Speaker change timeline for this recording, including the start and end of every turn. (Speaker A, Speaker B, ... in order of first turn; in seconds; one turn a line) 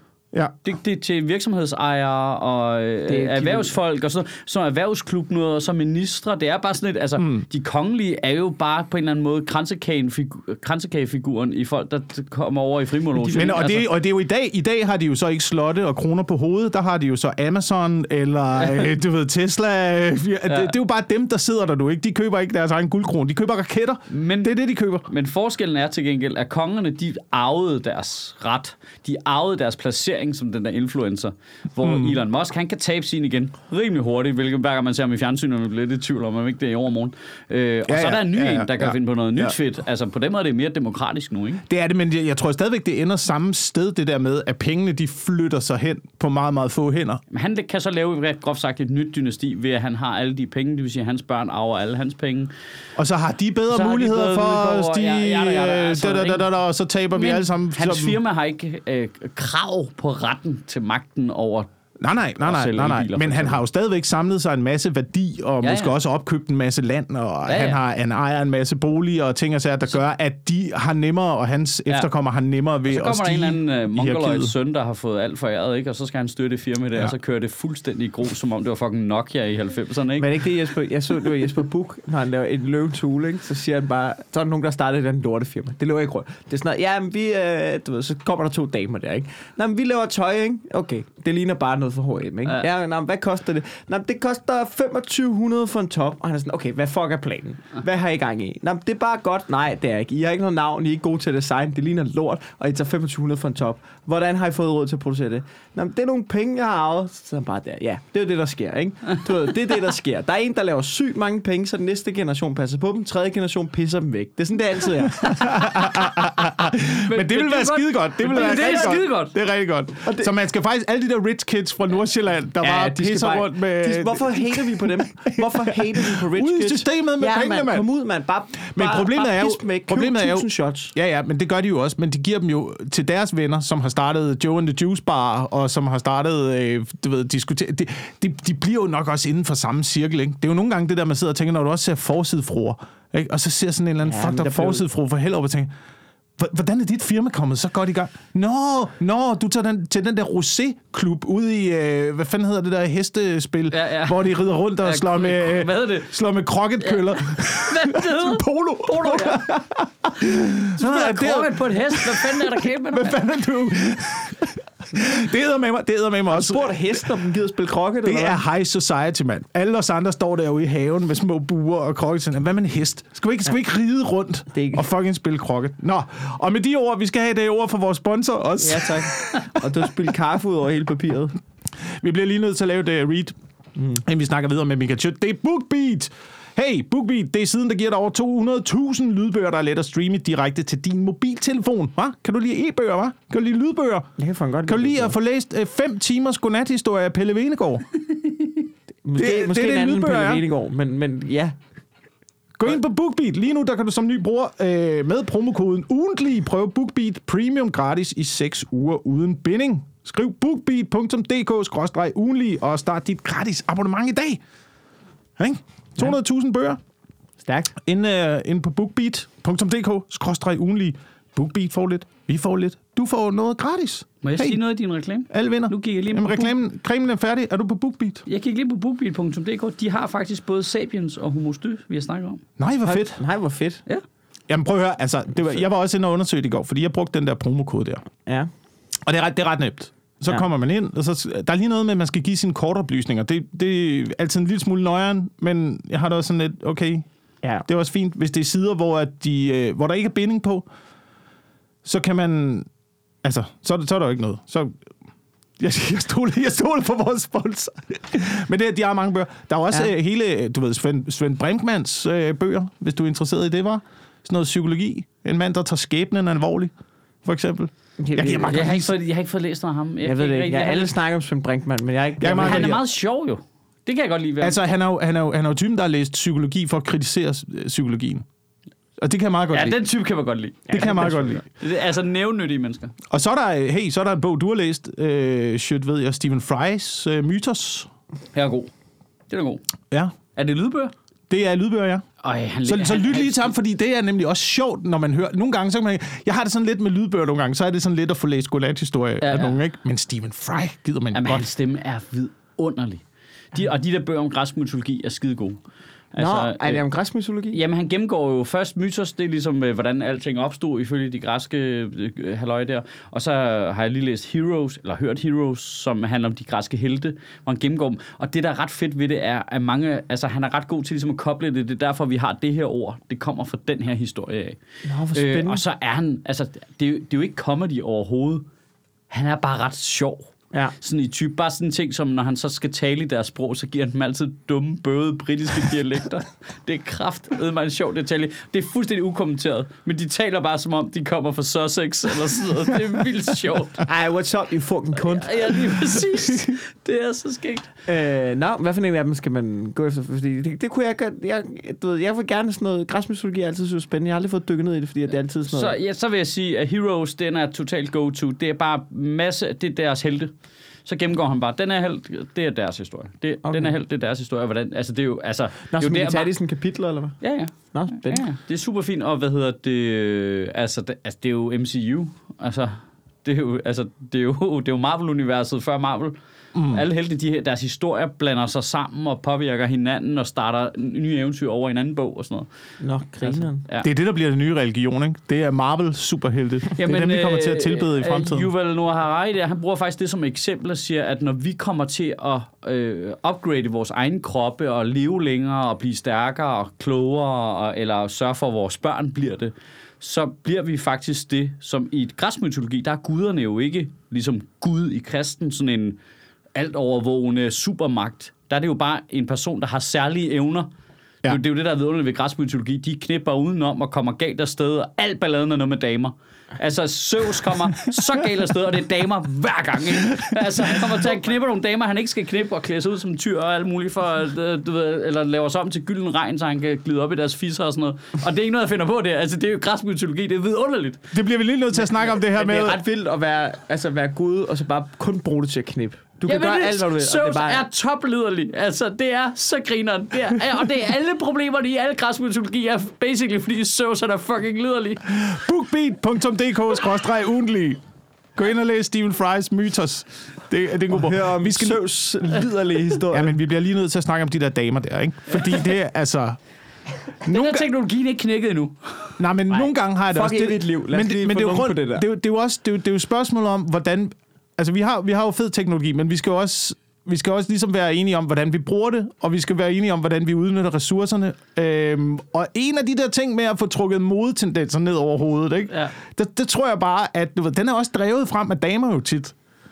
Speaker A: 0.6-13.9
Speaker B: 3.1-3.8
Speaker C: 7.2-7.4
Speaker C: 13.3-25.1
Speaker A: 18.6-18.9
Speaker A: 20.5-20.7
Speaker A: 24.1-24.5
Speaker A: 25.1-41.6
Speaker C: 31.8-32.2
Speaker C: 37.9-39.5
Speaker C: 41.7-47.2
Speaker A: 47.3-52.5
Speaker C: 53.0-58.2
Speaker A: 53.7-56.4
Speaker A: 57.1-61.7
Speaker C: 62.0-74.5
Speaker A: 62.4-63.6
Speaker A: 65.6-65.9
Speaker A: 67.5-67.8
Speaker A: 72.9-80.3
Speaker B: 80.2-115.7
Speaker A: 115.2-119.3
Speaker C: 115.3-127.8
Speaker B: 118.4-119.0
Speaker B: 120.1-120.3
Speaker B: 122.6-130.9
Speaker C: 128.7-145.7
Speaker B: 144.1-144.8
Speaker C: 146.4-167.1
Speaker A: 153.7-156.1
Speaker A: 156.8-159.5
Speaker A: 160.7-163.2
Speaker B: 166.3-168.4
Speaker C: 168.0-179.9
Speaker B: 174.5-174.8
Speaker B: 178.6-181.4
Speaker C: 181.8-183.3
Speaker B: 183.8-184.0
Speaker C: 184.0-194.1
Speaker B: 194.2-195.1
Speaker C: 194.7-197.9
Speaker B: 199.0-201.6
Speaker C: 199.2-200.4
Speaker C: 202.6-214.4
Speaker C: 215.4-216.8
Speaker B: 217.4-217.7
Speaker C: 217.8-224.6
Speaker A: 224.2-226.5
Speaker C: 225.3-228.2
Speaker A: 228.3-232.4
Speaker C: 232.6-233.2
Speaker B: 232.8-233.8
Speaker C: 234.5-238.0
Speaker C: 239.1-247.1
Speaker C: 247.7-250.7
Speaker C: 251.8-252.7
Speaker C: 253.2-254.8
Speaker C: 255.6-266.7
Speaker C: 267.2-268.9
Speaker B: 268.0-268.8
Speaker A: 268.5-270.9
Speaker B: 270.0-272.8
Speaker C: 272.2-272.8
Speaker A: 272.4-274.6
Speaker C: 274.4-278.2
Speaker C: 279.0-279.8
Speaker A: 279.5-282.9
Speaker B: 280.7-281.4
Speaker C: 280.7-281.4
Speaker C: 283.1-287.9
Speaker A: 288.3-288.7
Speaker A: 289.3-289.6
Speaker A: 290.3-290.9
Speaker C: 291.3-292.0
Speaker A: 292.2-293.5
Speaker C: 292.6-301.5
Speaker A: 299.2-299.6
Speaker A: 301.1-305.6
Speaker A: 306.1-306.8
Speaker B: 306.2-307.6
Speaker A: 307.5-324.6
Speaker B: 324.8-325.6
Speaker A: 325.1-328.4
Speaker A: 329.1-343.8
Speaker B: 343.9-345.9
Speaker A: 344.9-347.7
Speaker B: 347.9-355.8
Speaker A: 355.4-360.3
Speaker A: 360.8-366.3
Speaker B: 363.4-363.7
Speaker B: 365.7-368.2
Speaker A: 367.2-376.1
Speaker C: 376.5-376.8
Speaker A: 376.7-382.5
Speaker B: 382.8-383.6
Speaker A: 383.2-383.9
Speaker C: 383.8-388.5
Speaker A: 386.8-406.0
Speaker A: 406.5-410.7
Speaker A: 411.2-431.0
Speaker C: 431.1-432.8
Speaker B: 432.1-437.6
Speaker A: 436.2-445.1
Speaker C: 445.1-447.8
Speaker C: 448.3-451.8
Speaker B: 450.9-453.3
Speaker C: 453.1-456.4
Speaker A: 457.2-459.1
Speaker C: 457.2-457.6
Speaker C: 459.2-479.3
Speaker B: 459.5-462.0
Speaker A: 475.7-475.9